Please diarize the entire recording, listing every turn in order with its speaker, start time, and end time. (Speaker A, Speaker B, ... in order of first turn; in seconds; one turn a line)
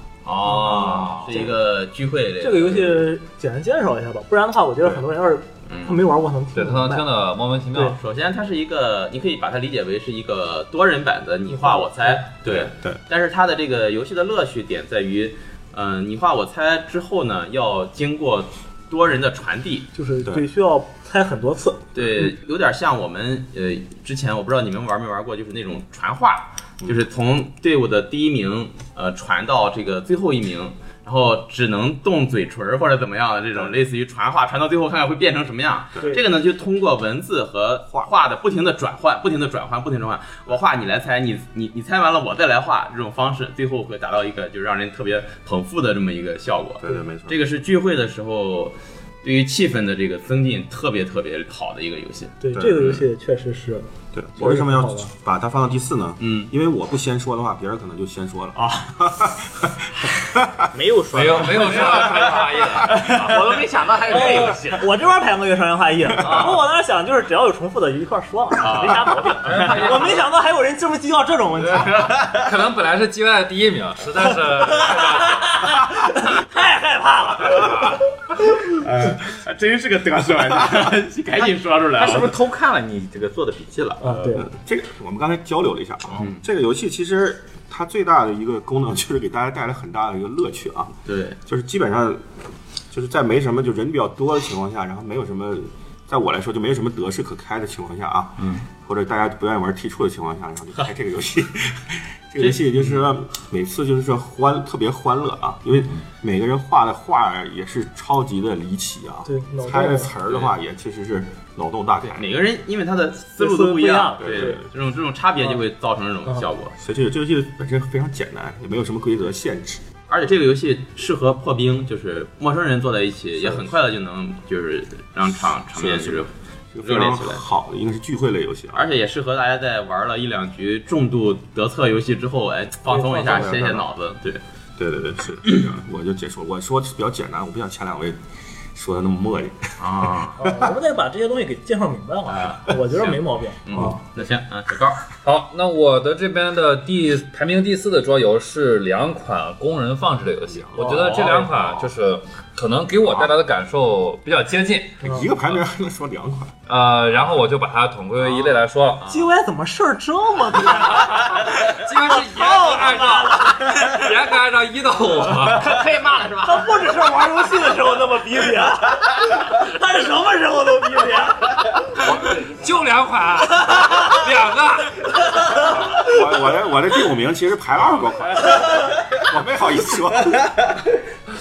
Speaker A: 0.2-3.1
Speaker B: 0.6-1.5
Speaker C: 2.4-7.1
Speaker A: 5.7-6.0
Speaker D: 6.5-8.0
Speaker A: 7.9-19.9
Speaker C: 11.5-12.2
Speaker B: 12.5-13.0
Speaker C: 19.9-21.9
Speaker A: 21.9-52.9
Speaker B: 46.8-47.4
Speaker C: 52.4-55.1
Speaker B: 52.5-52.9
Speaker B: 54.1-60.7
Speaker A: 56.2-56.5
Speaker E: 60.7-64.9
Speaker D: 61.1-63.5
Speaker C: 64.1-72.0
Speaker A: 66.2-66.6
Speaker A: 68.6-69.8
Speaker D: 69.3-70.3
Speaker A: 71.7-72.4
Speaker D: 72.0-75.7
Speaker C: 74.9-78.6
Speaker A: 78.8-82.4
Speaker E: 82.0-84.0
Speaker C: 84.0-84.5
Speaker B: 84.3-90.9
Speaker A: 86.1-86.4
Speaker A: 91.0-91.4
Speaker B: 91.5-92.2
Speaker B: 92.9-112.3
Speaker A: 102.4-103.0
Speaker C: 109.2-110.1
Speaker A: 110.2-110.5
Speaker A: 112.1-116.7
Speaker C: 113.4-114.6
Speaker B: 114.2-114.7
Speaker B: 116.8-119.8
Speaker A: 120.1-127.4
Speaker B: 123.4-123.7
Speaker B: 125.7-128.8
Speaker A: 128.7-134.4
Speaker C: 132.9-133.3
Speaker B: 133.1-133.8
Speaker B: 134.8-138.2
Speaker B: 138.7-140.7
Speaker A: 139.8-140.4
Speaker C: 140.4-144.0
Speaker A: 142.3-145.1
Speaker D: 145.2-155.1
Speaker B: 150.7-151.8
Speaker C: 150.8-151.4
Speaker B: 155.0-156.6
Speaker D: 156.7-159.1
Speaker C: 159.1-161.6
Speaker D: 161.1-165.7
Speaker C: 162.2-164.1
Speaker E: 165.4-166.9
Speaker C: 166.4-171.7
Speaker D: 171.9-175.6
Speaker B: 175.9-180.4